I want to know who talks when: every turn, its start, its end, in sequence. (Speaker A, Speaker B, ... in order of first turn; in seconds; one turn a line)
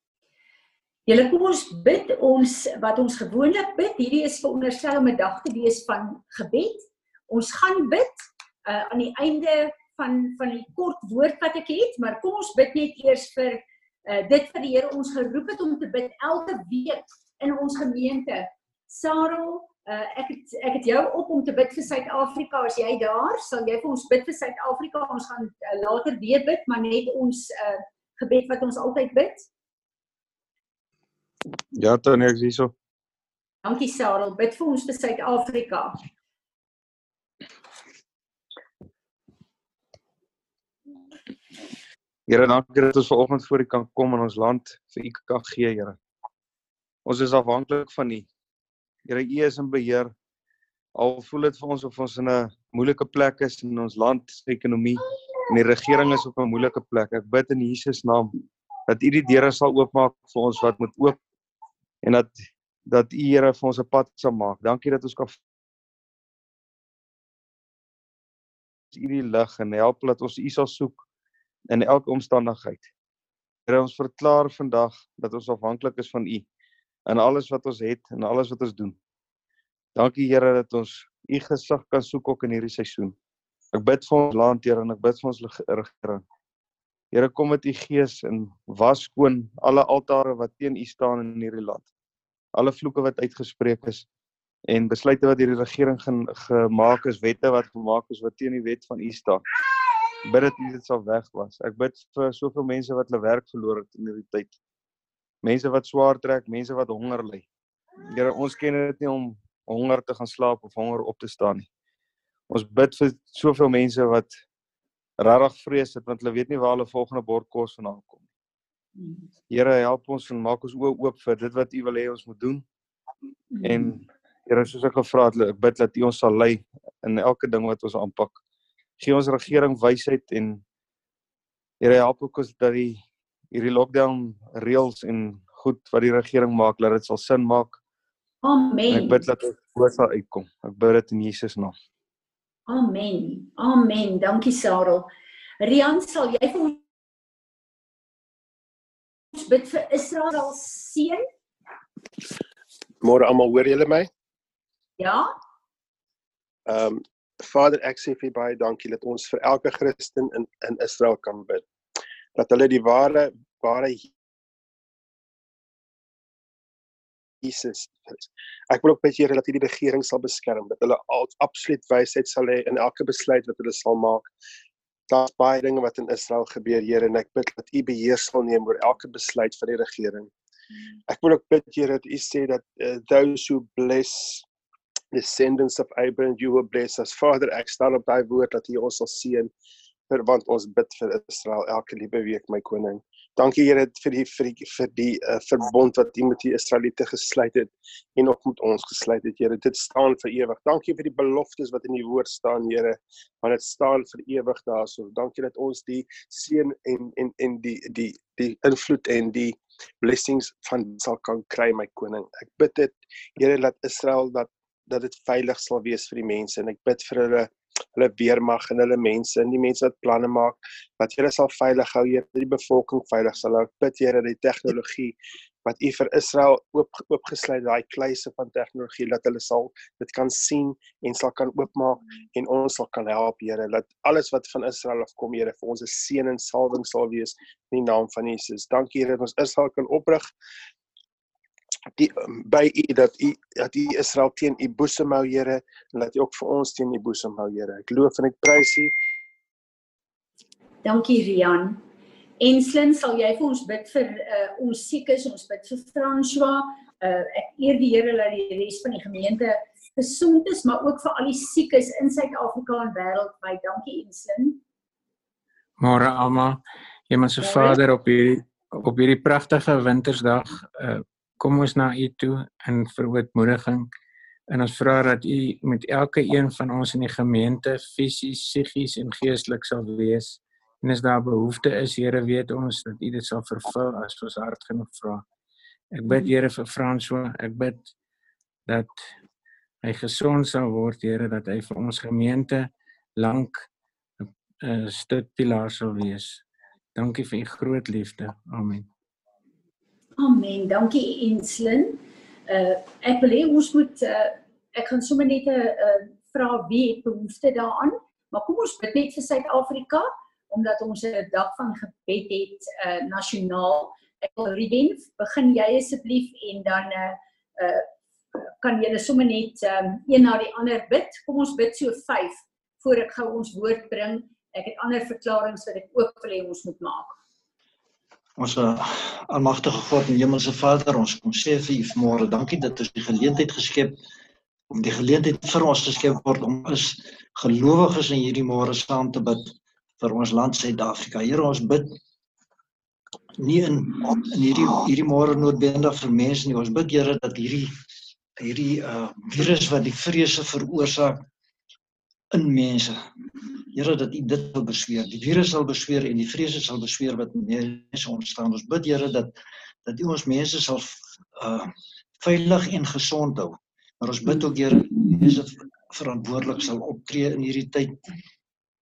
Speaker A: 1.1-29.5
Speaker B: 31.8-32.7
Speaker A: 33.6-36.0
Speaker B: 42.3-46.0
Speaker B: 47.0-48.3
Speaker B: 49.1-50.1
Speaker B: 51.0-58.3
Speaker B: 58.9-61.2
Speaker B: 62.0-65.4
Speaker B: 68.9-71.0
Speaker B: 71.7-72.9
Speaker B: 73.7-76.5
Speaker B: 77.1-79.0
Speaker B: 80.0-83.2
Speaker B: 83.7-86.2
Speaker B: 87.1-91.9
Speaker B: 92.5-94.0
Speaker B: 94.7-99.4
Speaker B: 100.2-104.5
Speaker B: 105.4-107.5
Speaker B: 108.1-111.7
Speaker B: 112.5-114.3
Speaker B: 115.2-118.2
Speaker A: 119.0-119.2
Speaker B: 119.5-122.7
Speaker A: 123.5-123.9
Speaker B: 123.6-128.4
Speaker B: 129.0-130.6
Speaker B: 131.8-137.8
Speaker A: 138.4-139.2
Speaker B: 138.9-141.8
Speaker A: 142.7-145.1
Speaker A: 145.6-146.8
Speaker A: 149.3-151.2
Speaker C: 153.0-154.1
Speaker A: 155.0-155.3
Speaker C: 156.7-161.7
Speaker C: 162.3-164.1
Speaker C: 167.4-174.3
Speaker C: 175.1-180.3
Speaker C: 181.1-184.4
Speaker C: 185.1-189.5
Speaker C: 190.1-240.3
Speaker C: 242.0-248.9
Speaker A: 250.8-251.8
Speaker A: 252.4-264.6
Speaker D: 265.8-273.9
Speaker D: 274.5-285.2
Speaker D: 285.9-287.9
Speaker D: 288.7-289.1
Speaker D: 289.8-293.7
Speaker D: 294.2-296.4
Speaker D: 296.9-298.9
Speaker A: 300.2-327.1
Speaker E: 328.4-334.0
Speaker E: 334.7-341.9
Speaker E: 343.4-347.7
Speaker E: 348.4-351.2
Speaker E: 352.3-353.1
Speaker E: 353.7-359.4
Speaker E: 359.9-368.0